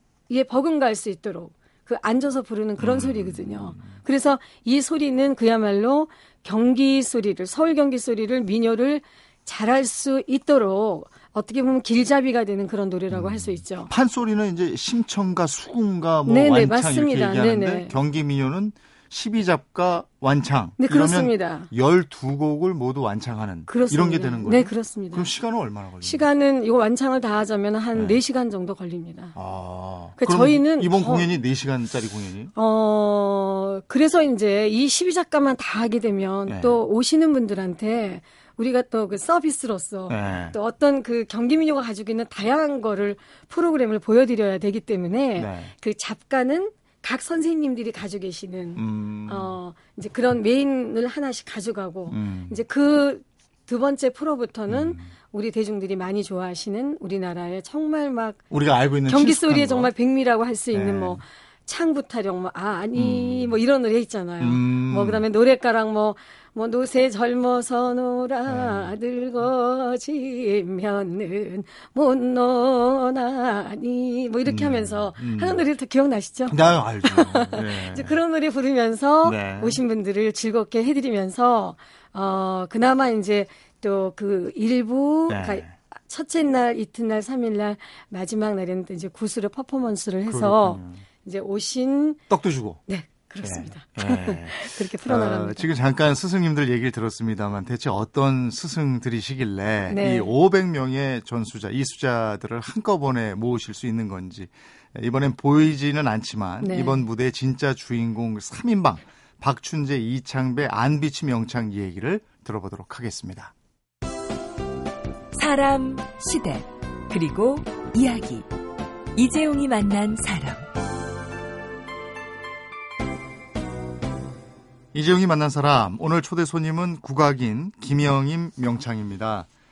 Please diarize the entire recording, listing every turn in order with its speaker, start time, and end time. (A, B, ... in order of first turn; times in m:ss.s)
0:00.3-0:13.9 A
0:02.8-0:03.9 B
0:13.1-0:26.2 B
0:16.2-0:17.9 A
0:20.8-0:21.7 A
0:23.7-0:25.3 A
0:26.0-0:29.4 A
0:29.3-0:32.5 B
0:30.2-0:31.3 A
0:32.6-0:58.4 A
0:36.5-0:36.8 B
0:40.1-0:40.6 B
0:45.4-0:45.7 B
0:48.8-0:49.5 B
0:52.1-0:52.6 B
0:54.7-0:55.1 B
0:58.5-0:59.9 B
0:59.1-1:32.2 A
1:00.7-1:01.2 B
1:03.0-1:03.6 B
1:04.4-1:05.2 B
1:08.5-1:08.9 B
1:14.4-1:15.6 B
1:16.5-1:18.2 B
1:19.2-1:19.8 B
1:25.3-1:25.7 B
1:30.3-1:31.0 B
1:32.3-1:32.8 B
1:32.9-1:35.7 A
1:33.4-1:53.5 B
1:39.9-1:40.3 A
1:46.6-1:47.0 A
1:55.3-1:58.5 C
1:59.2-2:00.6 C
2:04.9-2:09.5 B